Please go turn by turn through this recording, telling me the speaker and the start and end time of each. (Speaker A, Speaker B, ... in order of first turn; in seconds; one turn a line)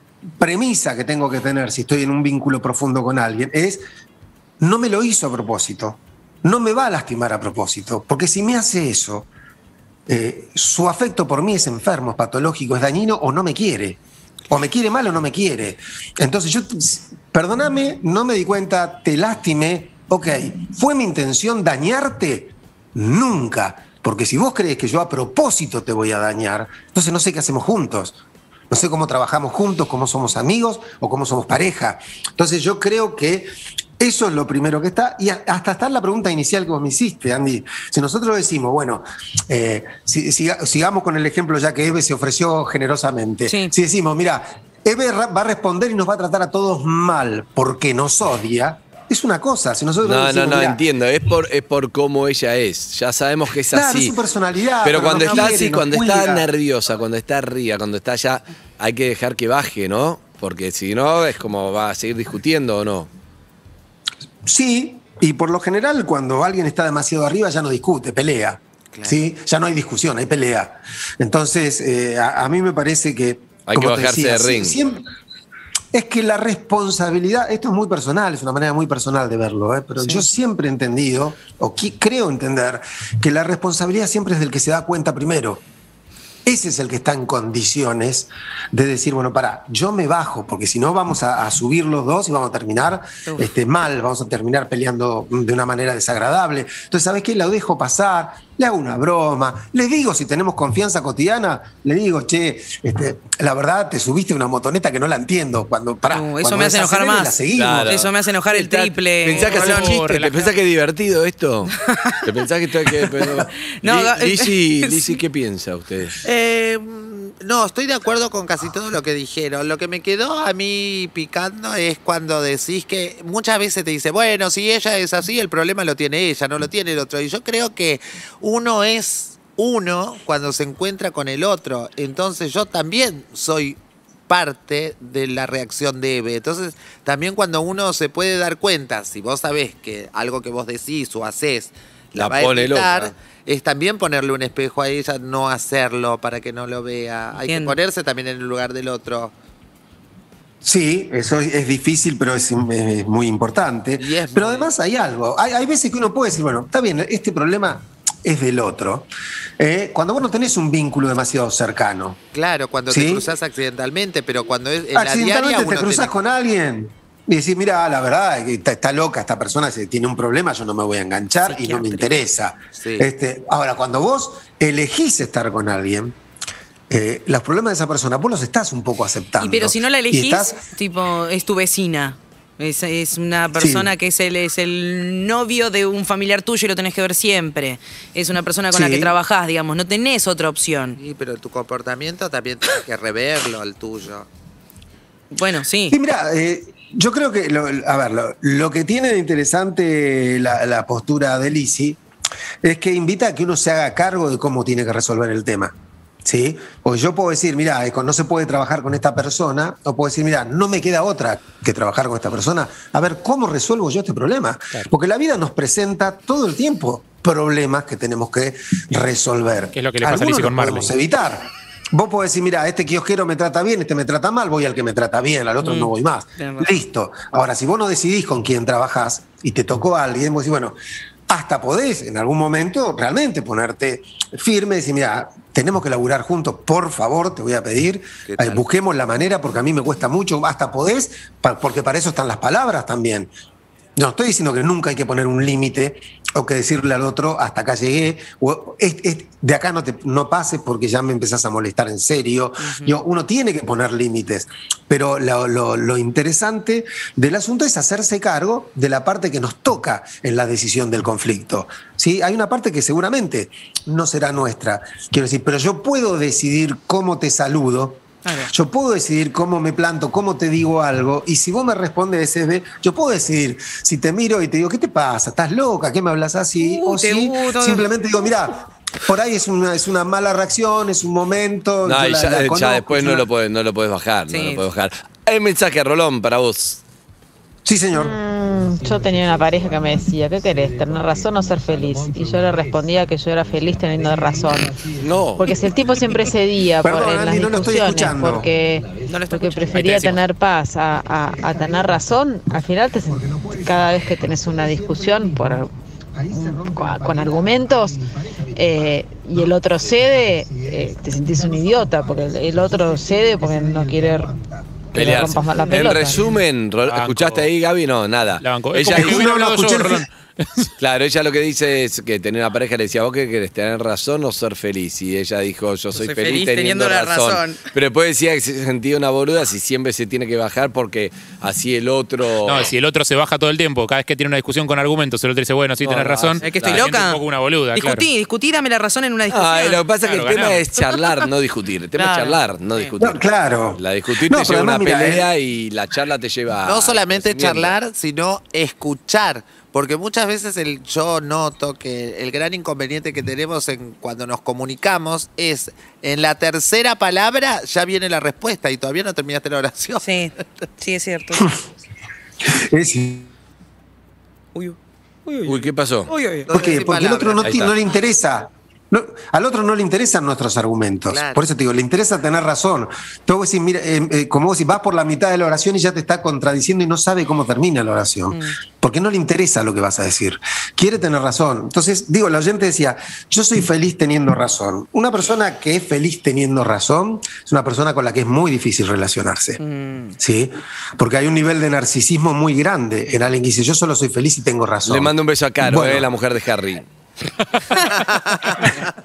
Speaker A: 0.4-3.8
Speaker A: 4.6-9.3
Speaker A: 10.1-14.0
Speaker A: 14.5-28.2
Speaker A: 28.7-50.8
Speaker B: 43.5-43.7
Speaker C: 50.0-54.1
Speaker A: 53.7-56.5
Speaker C: 54.8-63.1
Speaker A: 64.5-75.0
Speaker C: 73.7-74.8
Speaker A: 75.9-85.6
Speaker A: 86.4-108.0
Speaker B: 106.1-109.9
Speaker C: 107.5-116.2
Speaker D: 109.3-110.5
Speaker B: 111.7-112.3
Speaker B: 113.8-115.1
Speaker E: 116.2-149.3
Speaker C: 142.1-143.1
Speaker B: 147.4-147.8
Speaker A: 150.6-162.2
Speaker E: 154.0-154.7
Speaker E: 162.3-166.1
Speaker A: 162.9-163.2
Speaker A: 164.9-176.2
Speaker B: 171.5-172.2
Speaker E: 172.8-173.1
Speaker A: 176.9-180.6
Speaker B: 179.4-191.0
Speaker A: 183.6-183.9
Speaker A: 188.7-189.1
Speaker E: 191.0-194.3
Speaker B: 195.3-196.0
Speaker A: 195.9-202.0
Speaker A: 202.6-230.8
Speaker D: 219.7-220.9
Speaker B: 225.6-226.7
Speaker A: 231.3-243.3
Speaker E: 238.3-238.6
Speaker A: 243.9-283.3
Speaker B: 252.6-253.0
Speaker B: 268.2-268.5
Speaker B: 276.6-277.9
Speaker C: 281.8-286.8
Speaker B: 284.3-284.6
Speaker A: 287.6-299.2
Speaker F: 287.9-294.8
Speaker C: 295.0-295.4
Speaker F: 295.4-305.7
Speaker B: 299.1-300.2
Speaker D: 299.7-300.2
Speaker A: 300.9-305.6
Speaker A: 306.1-316.4
Speaker F: 306.3-308.0
Speaker F: 308.6-314.3
Speaker C: 314.9-319.2
Speaker F: 314.9-316.2
Speaker D: 316.8-317.5
Speaker D: 318.4-320.7
Speaker A: 318.9-320.1
Speaker C: 320.8-332.7
Speaker B: 325.9-327.7
Speaker D: 332.4-338.0
Speaker C: 335.8-336.9
Speaker B: 336.4-339.9
Speaker C: 339.3-347.8
Speaker D: 340.1-340.6
Speaker B: 342.0-342.9
Speaker A: 343.0-345.3
Speaker E: 346.6-360.1
Speaker B: 360.0-361.5
Speaker A: 362.4-363.3
Speaker B: 364.5-366.5
Speaker C: 365.4-366.1
Speaker E: 366.5-367.7
Speaker A: 366.5-389.6
Speaker C: 367.4-367.7
Speaker E: 371.1-371.4
Speaker B: 389.6-390.1
Speaker A: 390.2-396.1
Speaker C: 394.9-396.9
Speaker E: 398.0-398.8